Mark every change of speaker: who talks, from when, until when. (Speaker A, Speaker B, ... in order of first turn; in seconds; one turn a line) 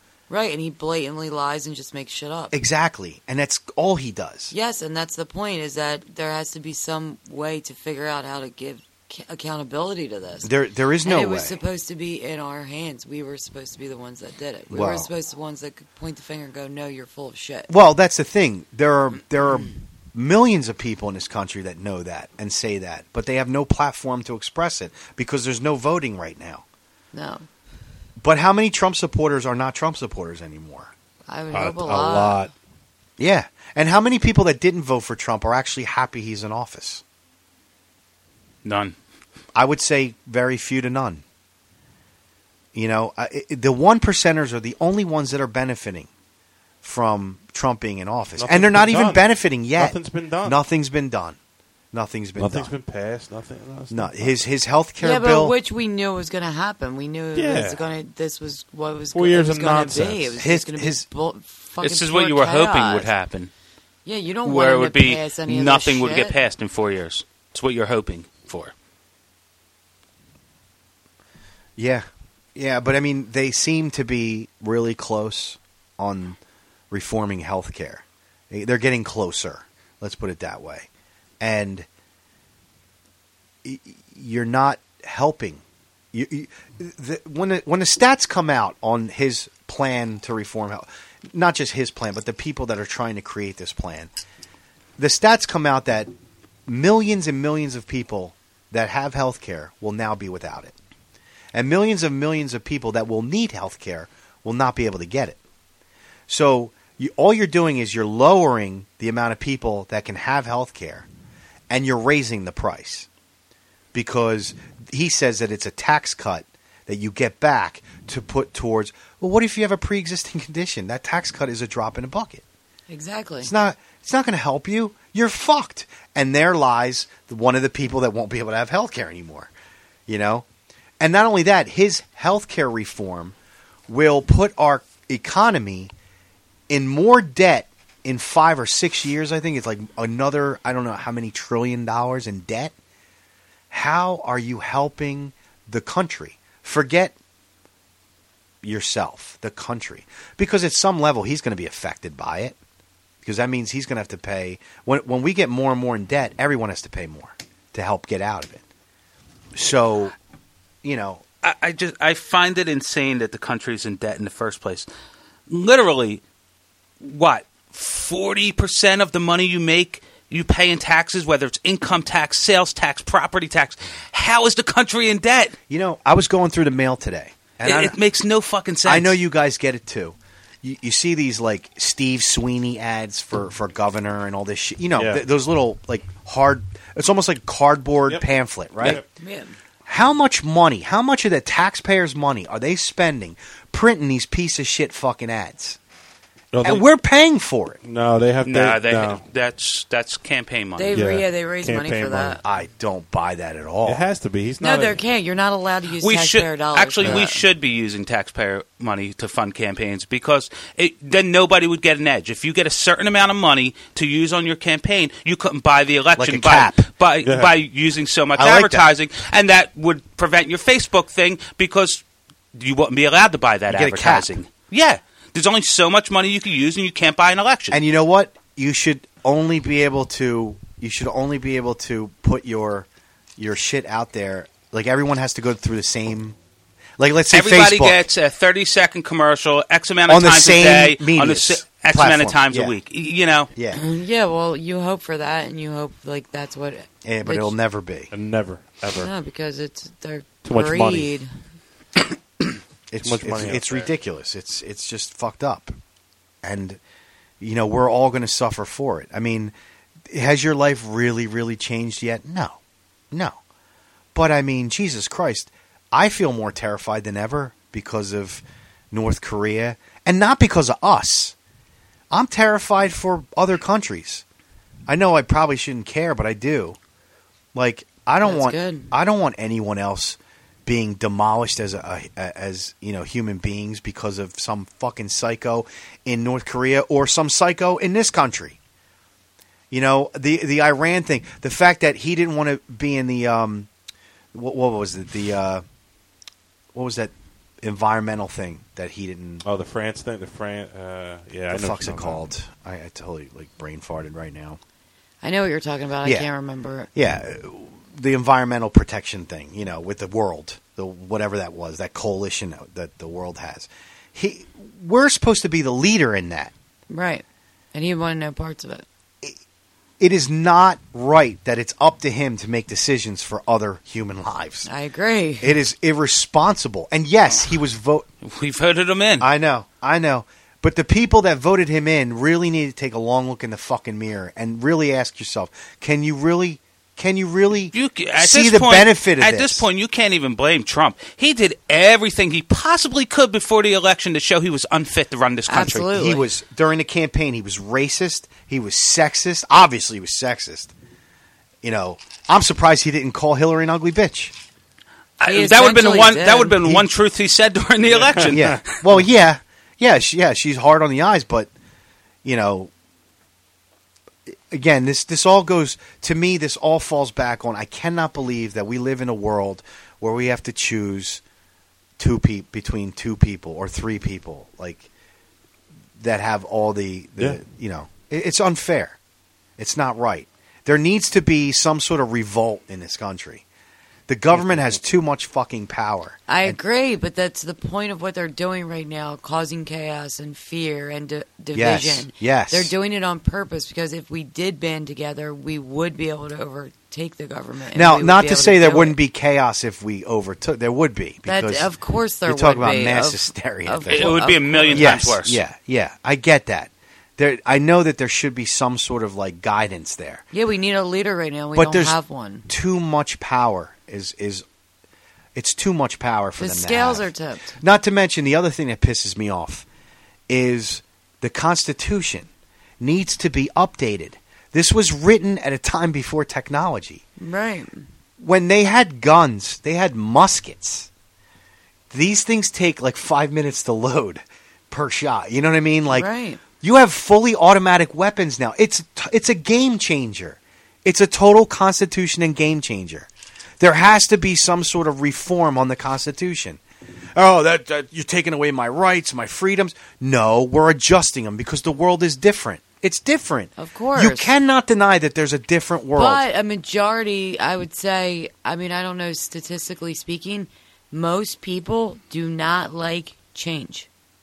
Speaker A: 0.3-2.6
Speaker B: 2.5-4.5
Speaker A: 4.5-10.5
Speaker B: 10.4-11.6
Speaker A: 11.0-17.7
Speaker B: 14.7-15.1
Speaker B: 17.7-26.6
Speaker A: 27.1-27.5
Speaker B: 28.2-30.9
Speaker A: 31.3-32.5
Speaker C: 31.5-32.5
Speaker B: 33.2-37.0
Speaker D: 38.6-39.0
Speaker B: 39.5-41.2
Speaker B: 42.7-46.1
Speaker B: 46.8-51.4
Speaker C: 48.4-50.6
Speaker B: 51.9-52.7
Speaker C: 52.4-54.4
Speaker B: 53.9-55.6
Speaker A: 55.0-63.1
Speaker C: 57.3-57.9
Speaker C: 59.1-60.4
Speaker B: 60.4-61.0
Speaker D: 61.8-63.5
Speaker A: 64.0-66.3
Speaker D: 64.5-68.7
Speaker B: 71.8-76.4
Speaker B: 76.9-80.9
Speaker B: 81.4-81.9
Speaker B: 83.6-94.1
Speaker B: 95.0-96.1
Speaker B: 96.7-100.8
Speaker B: 101.5-105.4
Speaker B: 106.3-111.1
Speaker B: 111.7-113.1
Speaker B: 113.9-122.4
Speaker A: 122.9-123.5
Speaker B: 123.4-129.5
Speaker B: 130.1-130.5
Speaker B: 131.0-133.4
Speaker B: 133.9-135.9
Speaker B: 136.7-142.7
Speaker B: 143.7-147.2
Speaker B: 148.6-152.6
Speaker B: 153.2-158.6
Speaker B: 159.5-160.2
Speaker B: 160.8-161.2
Speaker D: 161.4-164.9
Speaker D: 165.5-166.2
Speaker D: 167.0-175.6
Speaker B: 175.7-178.0
Speaker D: 177.6-179.2
Speaker B: 178.8-189.0
Speaker C: 185.0-185.2
Speaker A: 189.2-189.6
Speaker B: 189.9-195.8
Speaker C: 196.5-196.8
Speaker B: 196.6-197.8
Speaker C: 197.8-199.2
Speaker D: 198.4-201.0
Speaker A: 200.8-202.4
Speaker C: 200.9-202.4
Speaker B: 202.4-204.0
Speaker C: 203.8-205.0
Speaker A: 204.6-207.4
Speaker D: 206.0-222.0
Speaker B: 216.2-216.8
Speaker C: 217.2-217.5
Speaker B: 218.4-218.9
Speaker D: 222.5-227.8
Speaker B: 223.7-224.4
Speaker B: 227.7-236.4
Speaker B: 237.0-238.1
Speaker D: 237.3-243.5
Speaker B: 240.1-242.8
Speaker B: 243.6-243.8
Speaker A: 243.7-247.6
Speaker B: 247.0-248.1
Speaker C: 248.1-249.1
Speaker A: 248.9-251.3
Speaker C: 250.4-251.1
Speaker B: 252.9-255.8
Speaker C: 253.0-253.9
Speaker B: 256.4-256.8
Speaker B: 257.4-259.5
Speaker B: 260.1-262.6
Speaker B: 263.1-263.4
Speaker B: 264.1-271.4
Speaker B: 272.1-274.2
Speaker B: 274.9-276.8
Speaker B: 277.5-288.6
Speaker A: 278.2-278.9
Speaker B: 289.7-293.7
Speaker B: 294.3-295.6
Speaker B: 296.7-299.4
Speaker C: 299.4-302.2
Speaker B: 301.5-304.6
Speaker A: 305.2-306.9
Speaker B: 306.9-316.5
Speaker A: 316.9-318.9
Speaker B: 320.0-324.7
Speaker A: 324.6-325.6
Speaker B: 325.4-328.1
Speaker D: 328.2-329.3
Speaker B: 329.2-339.7
Speaker D: 337.7-345.9
Speaker A: 345.5-346.2
Speaker B: 345.9-350.7
Speaker B: 351.6-354.4
Speaker D: 355.2-358.8
Speaker A: 355.2-356.6
Speaker C: 358.0-358.3
Speaker B: 358.3-361.5
Speaker B: 362.2-362.7
Speaker B: 364.3-371.2
Speaker B: 372.0-374.9
Speaker B: 376.0-379.0
Speaker B: 379.6-383.4
Speaker B: 384.1-386.6
Speaker C: 384.4-384.7
Speaker A: 386.3-399.0
Speaker B: 391.5-392.7
Speaker B: 397.7-401.7
Speaker A: 401.3-405.0
Speaker B: 402.3-410.2
Speaker D: 403.9-405.4
Speaker A: 410.3-412.5
Speaker B: 411.6-412.0
Speaker B: 412.5-414.4
Speaker B: 415.4-419.7
Speaker A: 416.4-417.6
Speaker B: 420.3-422.3
Speaker B: 422.8-427.0
Speaker A: 427.2-427.9
Speaker B: 428.2-430.9
Speaker B: 431.9-436.1
Speaker A: 435.9-436.4
Speaker B: 436.6-443.1
Speaker B: 443.6-446.6
Speaker B: 447.1-456.2
Speaker A: 453.6-454.3
Speaker A: 456.0-463.9